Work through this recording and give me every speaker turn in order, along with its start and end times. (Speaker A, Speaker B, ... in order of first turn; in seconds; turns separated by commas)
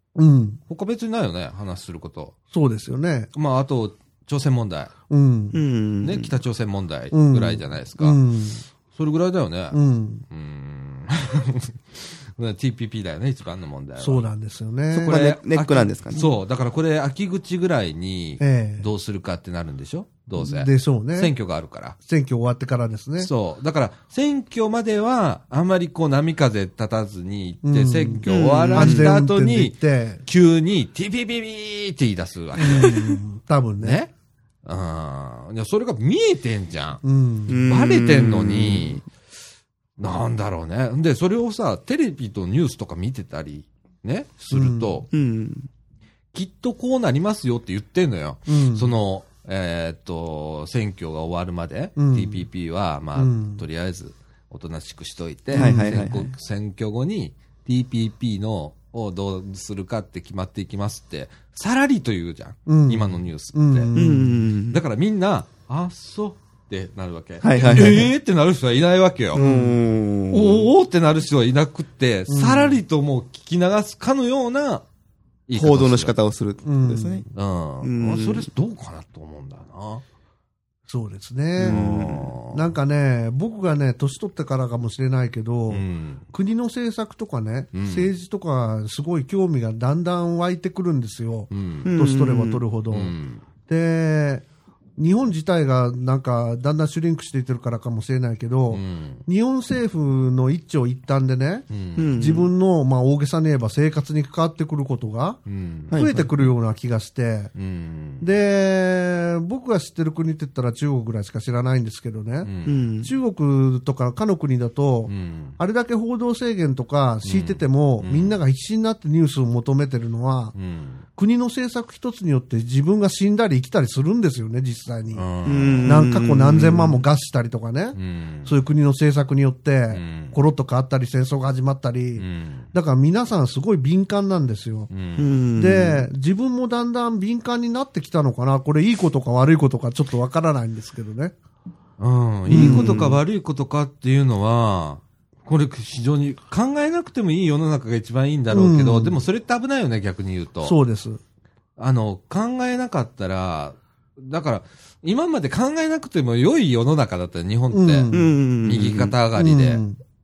Speaker A: 0.2-0.6, Speaker B: 0.7-2.4, Speaker A: 2.5-3.3, Speaker B: 3.3-4.9, Speaker A: 5.1-5.6, Speaker C: 5.5-6.3, Speaker B: 6.0-8.2, Speaker A: 7.1-8.7, Speaker B: 8.9-9.8, Speaker A: 9.7-10.2, Speaker B: 10.3-14.3, Speaker A: 14.0-15.2, Speaker C: 14.9-16.3, Speaker B: 15.1-22.0, Speaker A: 18.4-18.9, Speaker A: 20.4-21.3, Speaker A: 22.0-23.3, Speaker B: 23.2-33.1, Speaker A: 27.6-30.2, Speaker C: 28.3-29.1, Speaker A: 32.6-34.0, Speaker B: 33.8-34.1, Speaker B: 34.6-37.0, Speaker A: 37.0-37.6, Speaker C: 37.5-39.0, Speaker B: 37.6-39.0, Speaker B: 40.0-45.1, Speaker A: 44.5-45.0, Speaker C: 45.1-45.7, Speaker B: 46.3-63.9, Speaker A: 48.5-48.9, Speaker A: 52.0-52.5, Speaker A: 53.1-53.6, Speaker C: 55.5-56.3, Speaker A: 55.5-56.0, Speaker A: 62.7-64.4, Speaker C: 64.0-64.8, Speaker B: 64.7-69.4, Speaker C: 67.4-68.1, Speaker C: 69.3-70.7, Speaker A: 69.3-69.8, Speaker B: 70.3-74.8, Speaker A: 72.3-72.8, Speaker B: 75.5-76.1, Speaker C: 75.5-77.3, Speaker A: 76.6-77.3, Speaker B: 77.3-80.0, Speaker C: 77.8-78.5, Speaker A: 80.9-93.2, Speaker B: 81.6-82.7, Speaker B: 85.7-86.2, Speaker B: 87.7-88.1, Speaker B: 91.5-91.9, Speaker C: 91.8-92.7, Speaker B: 92.9-93.4, Speaker A: 93.7-94.5, Speaker A: 95.0-105.4, Speaker B: 98.7-99.2, Speaker B: 101.7-102.2, Speaker C: 102.0-102.5, Speaker B: 105.5-106.1, Speaker C: 105.9-106.3, Speaker A: 105.9-107.5, Speaker B: 107.5-108.3, Speaker A: 108.2-112.5, Speaker B: 112.4-112.8, Speaker C: 112.7-113.1, Speaker A: 113.0-120.5, Speaker B: 115.1-115.6, Speaker B: 117.2-118.4, Speaker B: 120.5-121.0, Speaker A: 121.2-125.3, Speaker B: 125.2-126.1, Speaker C: 125.5-127.0, Speaker A: 125.8-134.9, Speaker B: 128.0-128.5, Speaker B: 129.9-130.4, Speaker B: 132.2-132.7, Speaker B: 134.9-135.3, Speaker C: 135.2-136.1, Speaker A: 135.6-141.3, Speaker B: 142.0-150.8, Speaker A: 142.5-143.0, Speaker C: 142.5-143.2, Speaker A: 148.5-149.2, Speaker A: 150.6-151.2, Speaker B: 151.8-159.8, Speaker A: 157.7-158.4, Speaker C: 158.1-159.2, Speaker A: 159.3-160.0